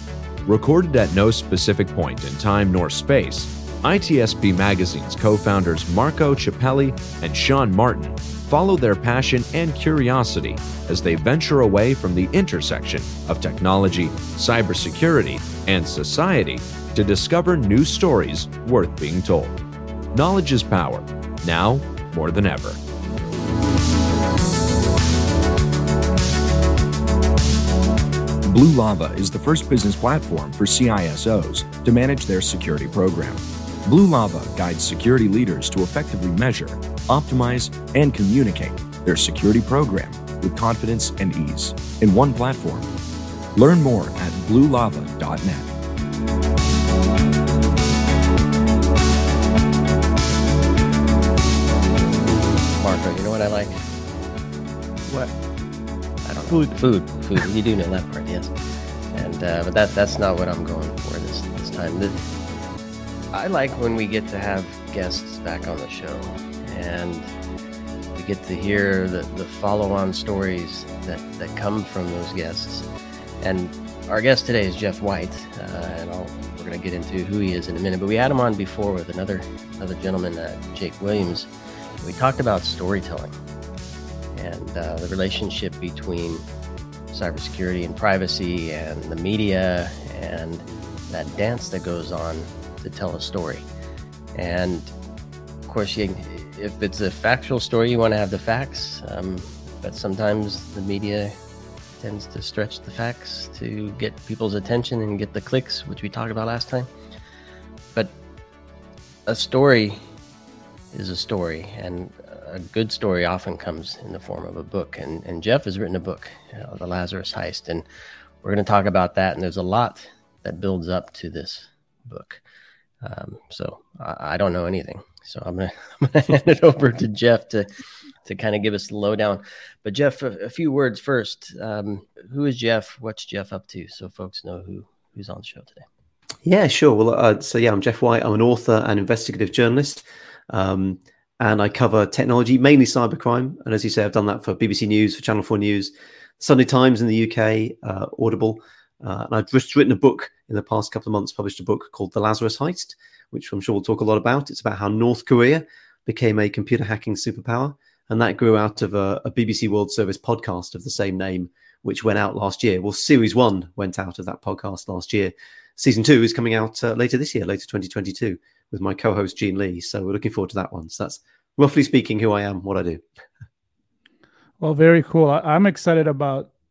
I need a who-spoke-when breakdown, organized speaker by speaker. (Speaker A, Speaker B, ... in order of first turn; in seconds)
Speaker A: 0.5-19.6, 20.1-22.8
Speaker B: 28.5-42.9, 43.6-45.7
Speaker C: 52.8-53.8, 56.2-58.5, 59.1-62.2, 63.3-67.3, 68.2-72.9, 73.4-81.5, 82.0-83.3, 84.3-86.4, 87.1-93.7, 94.3-94.9, 95.7-101.4, 102.0-106.9, 109.3-110.0, 110.9-117.8, 118.4-122.4, 123.0-127.7, 128.2-135.9
Speaker D: 55.1-55.3, 56.5-56.8, 174.6-176.5
Speaker E: 136.4-173.0